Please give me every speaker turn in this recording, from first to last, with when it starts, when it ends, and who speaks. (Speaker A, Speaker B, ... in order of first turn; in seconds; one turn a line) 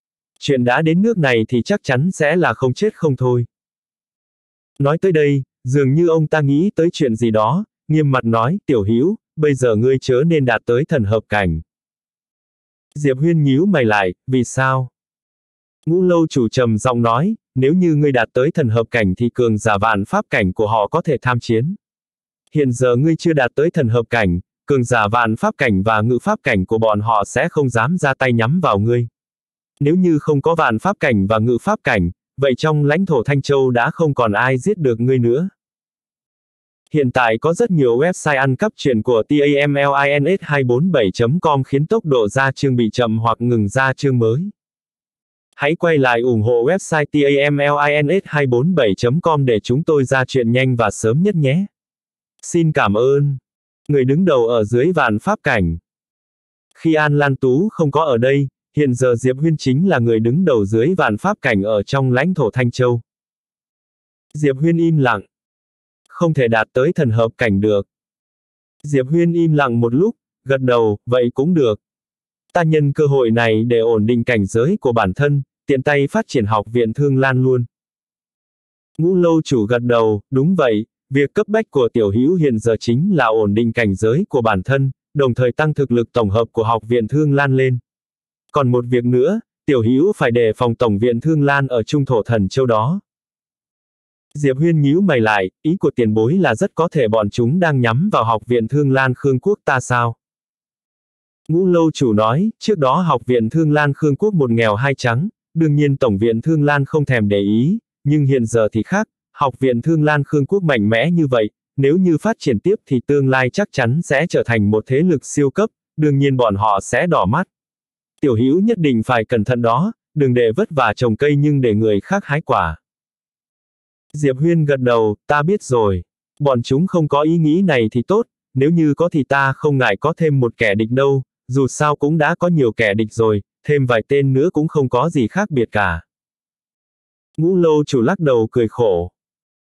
Speaker A: 0.4-3.5
Speaker A: 4.8-11.6
Speaker A: 12.9-14.9
Speaker A: 15.8-21.8
Speaker A: 22.5-29.1
Speaker A: 29.8-35.5
Speaker A: 36.9-44.5
Speaker A: 45.5-51.7
Speaker A: 52.4-55.8
Speaker A: 56.7-63.0
Speaker A: 64.3-65.2
Speaker A: 66.1-67.8
Speaker A: 68.8-71.8
Speaker A: 72.5-77.7
Speaker A: 79.0-87.8
Speaker A: 88.5-93.0
Speaker A: 94.3-100.2
Speaker A: 101.5-117.5
Speaker A: 118.2-122.8
Speaker A: 124.1-136.0
Speaker A: 137.4-139.1